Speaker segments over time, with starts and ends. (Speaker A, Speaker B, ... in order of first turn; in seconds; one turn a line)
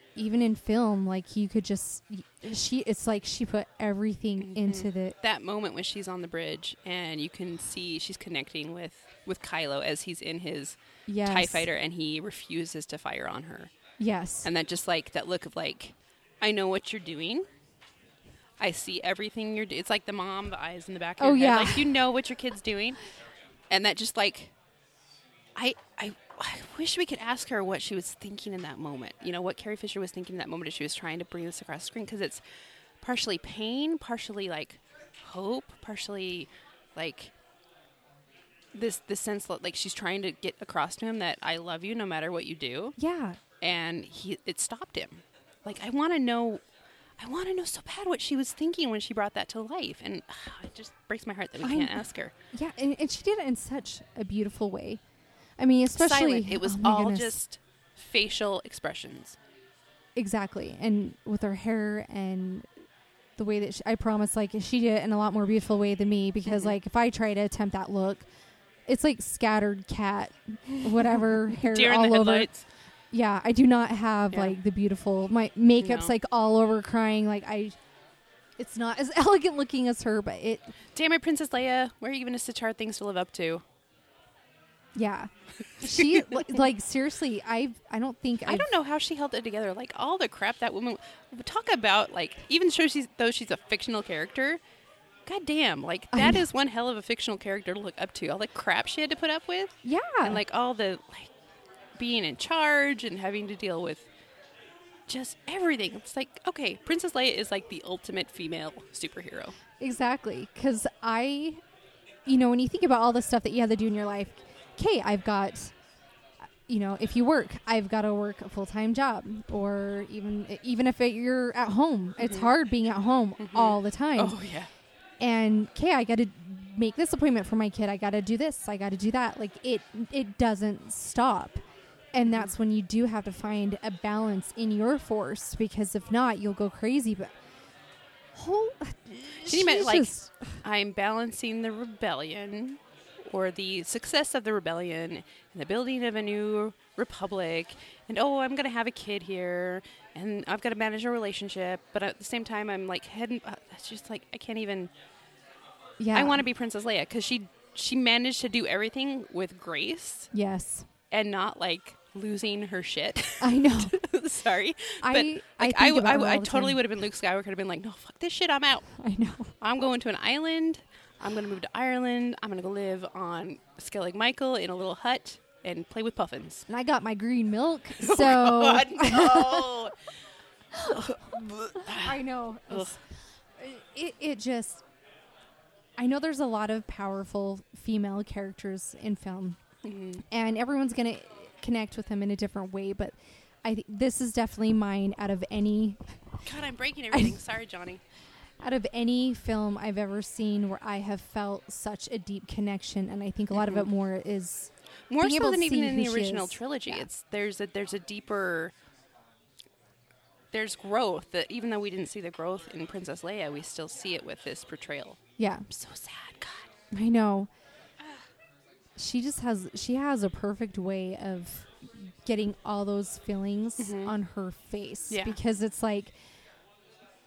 Speaker A: 0.2-5.2
Speaker B: 4.4-13.7
Speaker A: 11.1-11.7
Speaker A: 14.0-14.5
Speaker B: 14.4-17.5
Speaker B: 18.6-23.0
Speaker A: 21.2-21.9
Speaker B: 23.7-24.5
Speaker B: 25.6-32.4
Speaker B: 33.0-37.3
Speaker B: 38.7-43.0
Speaker A: 43.0-43.4
Speaker B: 43.6-46.6
Speaker B: 47.2-52.3
Speaker A: 51.6-55.0
Speaker A: 55.6-57.4
Speaker B: 55.9-59.4
Speaker A: 60.2-62.7
Speaker A: 63.4-68.3
Speaker B: 66.5-66.8
Speaker A: 68.9-72.5
Speaker B: 71.1-72.6
Speaker A: 73.1-77.8
Speaker B: 74.3-74.6
Speaker B: 75.8-76.1
Speaker A: 78.6-80.7
Speaker B: 81.0-83.6
Speaker A: 85.0-88.7
Speaker B: 88.5-94.6
Speaker B: 95.3-101.3
Speaker A: 96.1-96.4
Speaker A: 99.8-100.4
Speaker B: 102.0-104.1
Speaker B: 105.1-109.6
Speaker A: 109.8-111.6
Speaker A: 112.3-115.7
Speaker A: 116.7-124.4
Speaker B: 122.2-122.5
Speaker B: 123.4-124.7
Speaker A: 125.2-131.6
Speaker A: 132.1-137.3
Speaker A: 138.3-140.5
Speaker B: 139.4-154.9
Speaker A: 156.0-156.5
Speaker B: 156.1-160.3
Speaker A: 160.3-160.9
Speaker B: 161.1-168.9
Speaker A: 163.4-164.0
Speaker A: 165.0-166.8
Speaker A: 168.9-169.5
Speaker B: 169.6-176.7
Speaker A: 176.7-179.7
Speaker B: 178.0-179.9
Speaker B: 180.8-182.9
Speaker A: 181.8-183.0
Speaker A: 183.6-184.8
Speaker A: 186.0-189.6
Speaker B: 189.8-190.2
Speaker A: 190.3-196.0
Speaker B: 196.4-198.0
Speaker A: 197.1-197.4
Speaker A: 198.6-207.1
Speaker B: 203.5-203.9
Speaker B: 205.1-208.7
Speaker B: 210.5-216.7
Speaker A: 215.4-215.7
Speaker A: 216.9-217.5
Speaker A: 219.0-226.1
Speaker B: 223.8-224.1
Speaker B: 225.1-225.4